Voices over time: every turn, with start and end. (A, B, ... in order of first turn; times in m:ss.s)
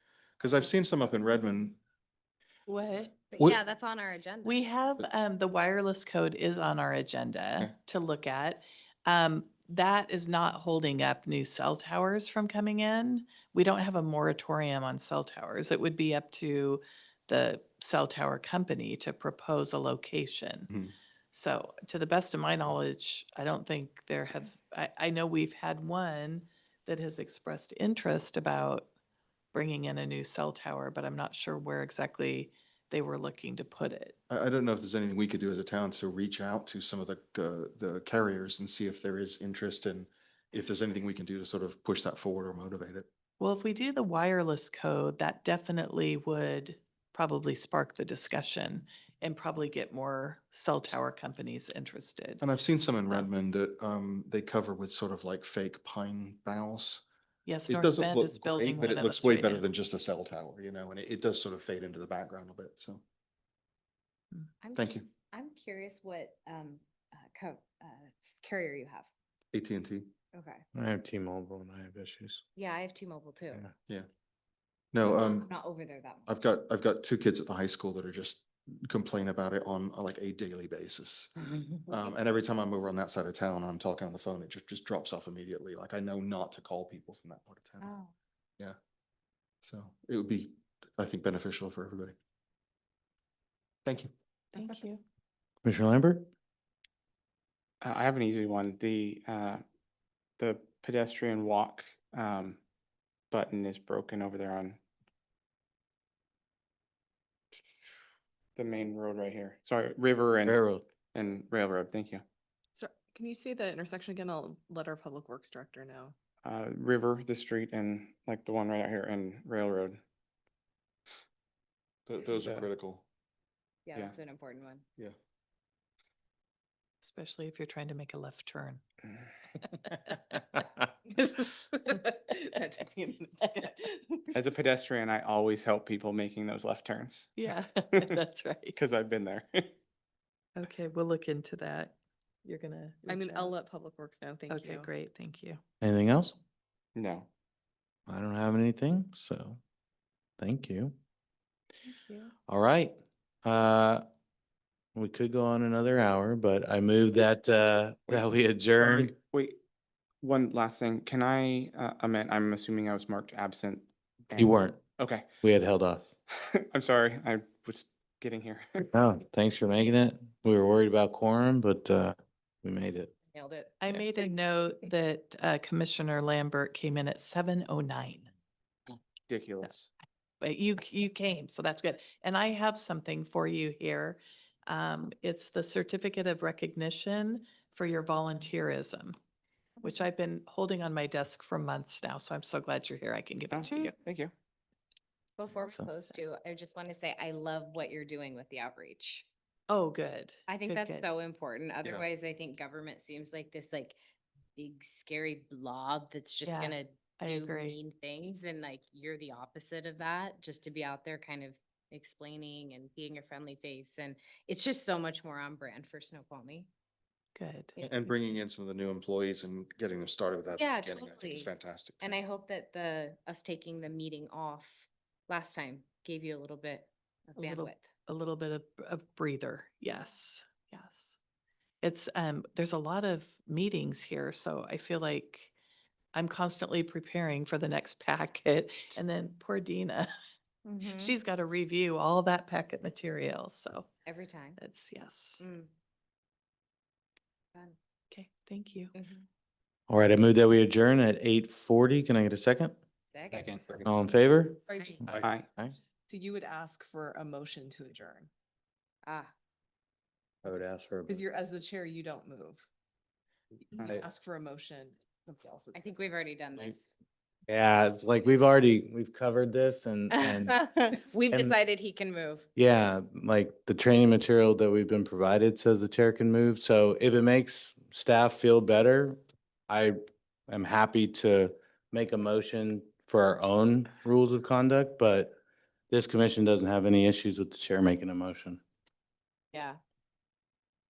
0:00.4-0:01.8 A
0:02.7-0:03.1 B
0:03.3-0:04.6 C
0:04.4-0:20.7 B
0:21.3-0:28.9 B
0:29.5-0:34.2 B
0:34.3-0:43.1 A
0:43.4-0:52.4 B
0:52.4-0:57.0 A
0:57.4-0:59.6 B
0:57.7-1:03.0 A
1:04.6-1:09.1 C
1:04.7-1:05.1 A
1:09.5-1:10.1 A
1:10.3-1:10.6 C
1:10.7-1:12.4 D
1:12.6-1:13.6 C
1:14.9-1:15.5 A
1:15.0-1:16.3 C
1:16.3-1:21.3 A
1:21.4-1:22.0 C
1:21.9-1:27.9 A
1:27.8-1:28.1 C
1:29.6-1:32.2 A
1:33.8-1:34.1 A
1:34.5-1:35.0 B
1:35.6-1:36.3 D
1:37.8-1:39.6 E
1:40.4-1:42.6 E
1:43.3-1:44.8 E
1:48.6-1:50.6 E
1:50.4-1:50.8 D
1:51.1-1:52.2 E
1:52.7-1:56.1 F
1:56.4-2:00.0 E
2:02.1-2:03.0 A
2:02.4-2:02.6 E
2:03.8-2:04.8 C
2:07.0-2:08.8 B
2:11.2-2:12.0 B
2:11.4-2:14.2 F
2:13.4-2:13.8 B
2:14.3-2:17.4 E
2:17.4-2:18.8 B
2:17.9-2:18.2 E
2:18.8-2:19.7 E
2:20.6-2:23.6 B
2:23.0-2:24.9 F
2:24.5-2:25.6 B
2:25.8-2:26.4 D
2:27.0-2:27.3 E
2:28.1-2:29.6 D
2:30.4-2:31.0 D
2:31.8-2:32.3 B
2:32.5-2:34.0 D
2:34.9-2:39.1 D
2:38.1-2:39.6 E
2:40.2-2:45.3 E
2:44.4-2:44.8 D
2:45.4-2:46.1 D
2:46.3-2:48.8 E
2:48.9-2:53.1 D
2:53.3-2:54.3 C
2:53.8-2:58.3 B
2:59.3-2:59.9 E
3:00.4-3:09.1 B
3:09.8-3:13.9 B
3:13.5-3:14.3 E
3:15.4-3:19.3 C
3:19.7-3:21.0 B
3:20.5-3:24.0 C
3:24.6-3:36.7 C
3:26.4-3:27.8 B
3:37.4-3:37.7 B
3:37.7-3:38.0 C
3:37.8-3:42.2 A
3:40.6-3:47.9 C
3:47.4-3:51.2 B
3:51.8-3:55.5 B
3:56.1-4:00.1 B
4:00.6-4:01.1 C
4:01.0-4:03.9 B
4:04.0-4:04.6 C
4:04.6-4:05.4 B
4:05.4-4:05.7 C
4:08.1-4:08.9 B
4:08.9-4:09.2 C
4:09.9-4:12.8 D
4:13.1-4:13.7 C
4:13.3-4:13.6 E
4:13.8-4:15.7 D
4:14.7-4:15.0 F
4:15.2-4:15.5 E
4:16.1-4:18.3 F
4:19.0-4:19.3 C
4:20.4-4:21.2 D
4:21.1-4:22.6 F
4:23.7-4:25.9 F
4:25.7-4:26.9 C
4:27.5-4:30.7 D
4:30.1-4:32.5 C
4:32.6-4:40.0 D
4:40.5-4:45.4 D
4:45.9-4:48.6 D
4:49.5-4:49.8 C